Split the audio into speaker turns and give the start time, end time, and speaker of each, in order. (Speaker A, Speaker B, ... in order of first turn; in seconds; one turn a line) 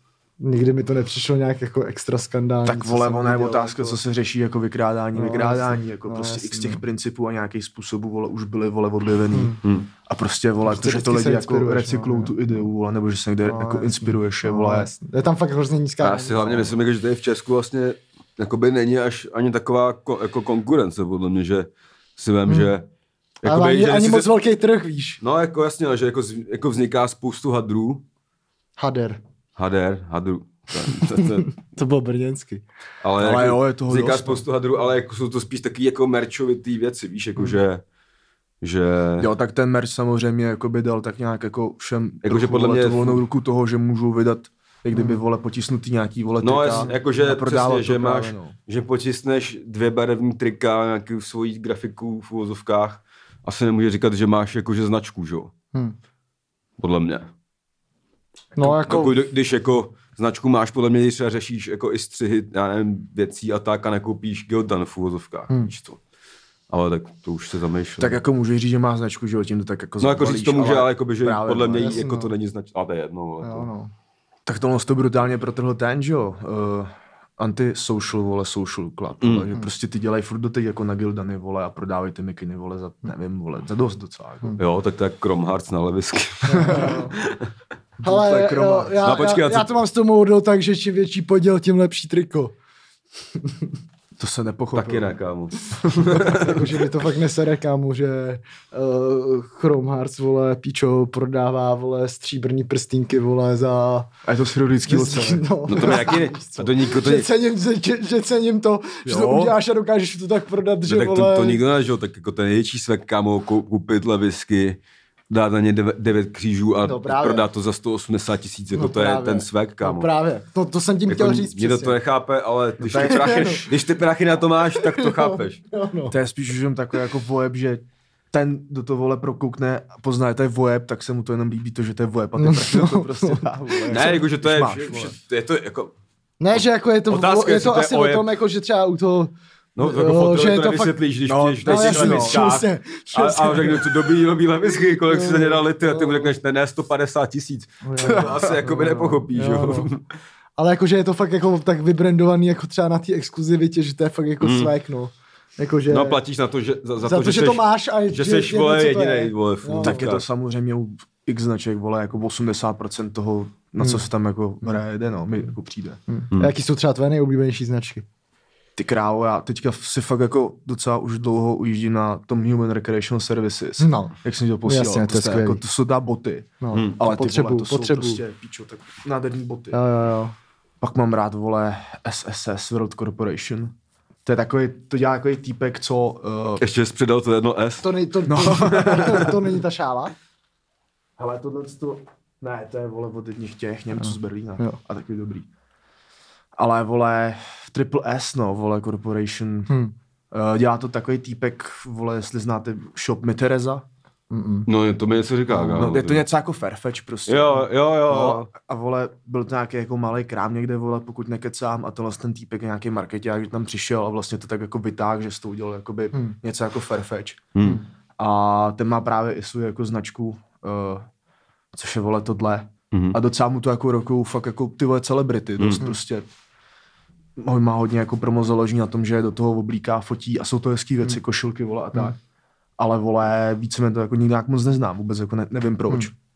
Speaker A: 0.4-4.0
Speaker B: 2.6-14.9
Speaker A: 5.1-6.8
Speaker A: 9.3-9.6
Speaker C: 9.6-9.9
Speaker A: 10.6-12.4
Speaker A: 13.4-16.8
Speaker C: 16.0-22.9
Speaker A: 22.5-22.7
Speaker C: 23.4-24.3
Speaker A: 23.4-25.2
Speaker C: 25.2-28.0
Speaker A: 28.8-29.2
Speaker C: 29.6-31.5
Speaker A: 30.9-32.6
Speaker C: 33.0-37.8
Speaker B: 33.2-34.4
Speaker C: 38.6-39.3
Speaker B: 39.2-48.6
Speaker C: 42.2-43.2
Speaker A: 44.9-45.2
Speaker C: 46.4-55.5
Speaker C: 56.8-57.3
Speaker A: 58.6-59.1
Speaker B: 58.6-58.8
Speaker C: 58.8-66.0
Speaker C: 66.7-68.2
Speaker B: 68.0-72.1
Speaker C: 70.0-73.7
Speaker A: 71.8-72.3
Speaker A: 73.4-73.9
Speaker B: 74.5-84.6
Speaker C: 79.2-79.5
Speaker C: 84.6-87.5
Speaker A: 86.5-87.2
Speaker B: 86.5-87.0
Speaker B: 88.0-89.2
Speaker A: 88.0-92.5
Speaker C: 89.0-89.7
Speaker A: 93.4-93.7
Speaker B: 94.2-95.1
Speaker C: 94.7-96.6
Speaker B: 95.8-96.3
Speaker A: 96.1-104.1
Speaker B: 104.2-106.0
Speaker A: 104.8-111.6
Speaker C: 105.7-107.3
Speaker B: 109.0-109.6
Speaker C: 110.9-120.1
Speaker A: 116.8-117.5
Speaker A: 118.7-122.0
Speaker C: 121.1-125.6
Speaker B: 122.8-123.7
Speaker A: 123.1-123.6
Speaker A: 124.8-126.2
Speaker B: 126.1-135.1
Speaker A: 132.4-134.2
Speaker C: 133.9-135.9
Speaker A: 136.4-141.0
Speaker C: 136.5-138.3
Speaker C: 139.8-142.5
Speaker B: 141.2-142.7
Speaker A: 141.7-144.0
Speaker C: 143.1-150.1
Speaker A: 145.0-146.3
Speaker A: 147.8-149.9
Speaker B: 148.0-148.6
Speaker A: 150.6-156.2
Speaker C: 154.4-154.7
Speaker C: 155.9-160.2
Speaker A: 157.0-160.1
Speaker B: 159.8-166.0
Speaker A: 163.8-164.1
Speaker A: 166.1-168.0
Speaker B: 168.8-179.8
Speaker A: 173.8-175.6
Speaker A: 176.6-178.2
Speaker C: 176.7-177.0
Speaker A: 179.7-180.3
Speaker B: 180.8-183.7
Speaker B: 184.2-186.6
Speaker C: 186.6-187.9
Speaker A: 187.8-190.1
Speaker B: 188.2-189.4
Speaker C: 188.6-189.2
Speaker B: 191.2-195.5
Speaker A: 194.0-194.8
Speaker B: 196.6-199.7
Speaker A: 199.7-199.9
Speaker B: 200.3-203.9
Speaker A: 204.3-204.7
Speaker C: 204.7-206.2
Speaker A: 205.5-205.9
Speaker B: 205.8-217.5
Speaker C: 207.3-208.5
Speaker C: 217.5-217.8
Speaker B: 218.2-221.1
Speaker B: 221.7-226.3
Speaker C: 222.9-223.2
Speaker B: 227.4-232.2
Speaker B: 232.8-236.1